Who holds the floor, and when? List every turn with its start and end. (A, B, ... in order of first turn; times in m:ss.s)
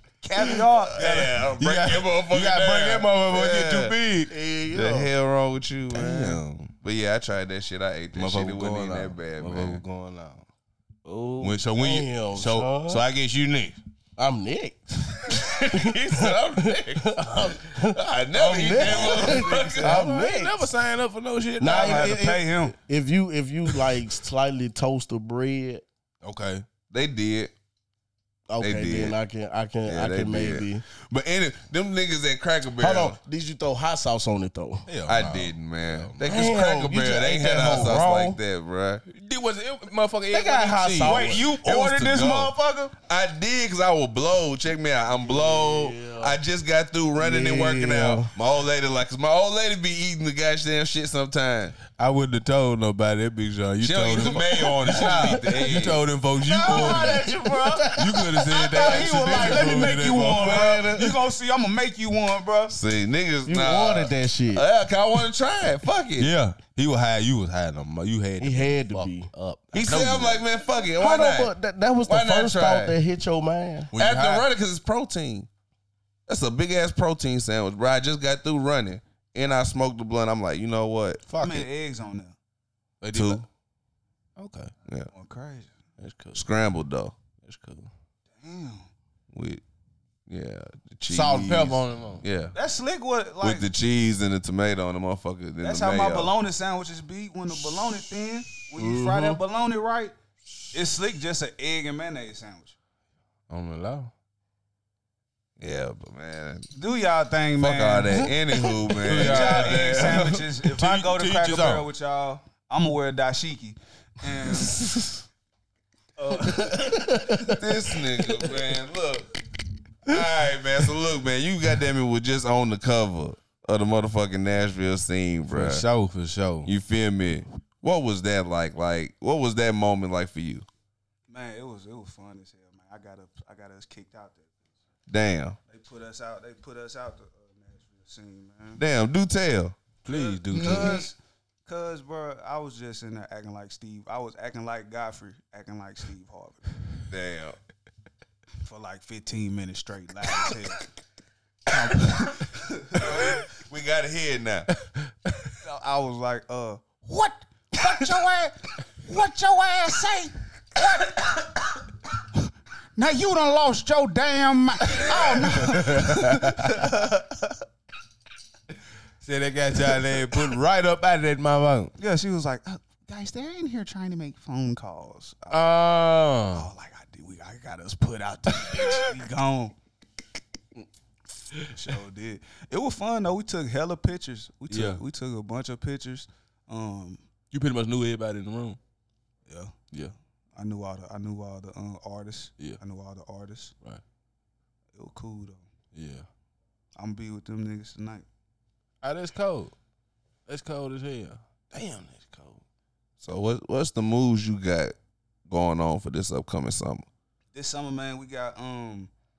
0:00.2-0:01.3 A
0:00.8-0:04.0 B
0:01.0-0:04.3 C
0:04.3-0:05.1 D
0:04.7-0:09.8 B
0:05.9-0:06.7 C
0:08.1-0:10.4 C
0:11.1-0:13.0 D
0:11.4-0:13.8 C
0:14.2-0:20.6 D
0:15.3-0:20.0 B
0:18.4-0:22.0 C
0:21.6-0:25.8 D
0:21.6-0:22.8 A
0:26.2-0:26.6 C
0:26.9-0:27.5 B
0:28.5-0:30.8 D
0:28.6-0:29.2 B
0:29.9-0:33.2 B
0:32.8-0:34.8 D
0:34.9-0:36.2 C
0:35.1-0:39.0 B
0:36.2-0:38.4 D
0:39.1-0:41.5 C
0:40.3-0:41.4 D
0:41.0-0:42.9 A
0:41.5-0:51.8 B
0:45.2-0:46.4 D
0:47.2-0:48.3 D
0:51.9-0:57.3 C
0:53.8-0:56.0 B
0:56.4-1:00.7 D
0:56.6-0:57.9 A
0:57.8-1:01.2 C
0:58.5-1:02.8 A
1:02.7-1:06.3 B
1:03.4-1:04.6 D
1:06.2-1:10.4 C
1:08.4-1:09.3 D
1:09.7-1:11.5 B
1:11.0-1:13.9 D
1:12.0-1:13.0 B
1:13.9-1:14.5 C
1:14.0-1:15.5 B
1:16.3-1:21.2 B
1:21.3-1:21.7 C
1:21.4-1:22.4 A
1:23.0-1:23.5 C
1:23.1-1:23.4 B
1:24.4-1:24.7 C
1:25.1-1:25.7 A
1:26.0-1:26.4 C
1:26.4-1:27.2 B
1:27.4-1:27.9 C
1:28.4-1:28.9 A
1:29.3-1:29.6 B
1:30.3-1:32.6 B
1:31.1-1:32.2 C
1:32.5-1:33.7 A
1:33.4-1:36.3 B
1:35.6-1:40.1 A
1:38.8-1:39.4 D
1:40.7-1:42.8 A
1:43.5-1:44.1 C
1:45.6-1:46.7 B
1:46.7-1:48.3 A
1:47.6-1:50.4 B
1:49.0-1:51.9 C
1:49.1-1:54.9 A
1:56.2-1:57.3 A
1:56.7-1:57.6 D
1:57.4-1:59.3 B
2:00.0-2:05.8 B
2:05.5-2:06.7 C
2:06.6-2:10.7 B
2:11.3-2:14.5 A
2:15.1-2:15.6 B
2:15.7-2:18.8 A
2:18.8-2:19.8 B
2:20.0-2:21.0 C
2:20.1-2:26.7 A
2:20.5-2:21.0 B
2:27.1-2:27.6 B
2:28.6-2:30.8 A
2:31.7-2:33.0 A
2:32.9-2:34.7 B
2:35.6-2:41.6 A
2:43.0-2:47.6 A
2:45.1-2:46.9 C
2:49.2-2:51.9 C
2:52.0-2:55.8 A
2:55.5-2:56.7 C
2:56.5-2:59.8 A
3:01.7-3:07.2 A
3:04.7-3:05.0 C
3:07.5-3:08.8 C
3:09.5-3:09.7 A
3:10.6-3:13.8 A
3:15.0-3:15.6 A
3:15.9-3:16.3 C
3:17.0-3:18.3 A
3:19.0-3:19.7 C
3:20.5-3:22.6 C
3:23.2-3:25.0 B
3:25.5-3:27.1 B
3:27.5-3:29.1 A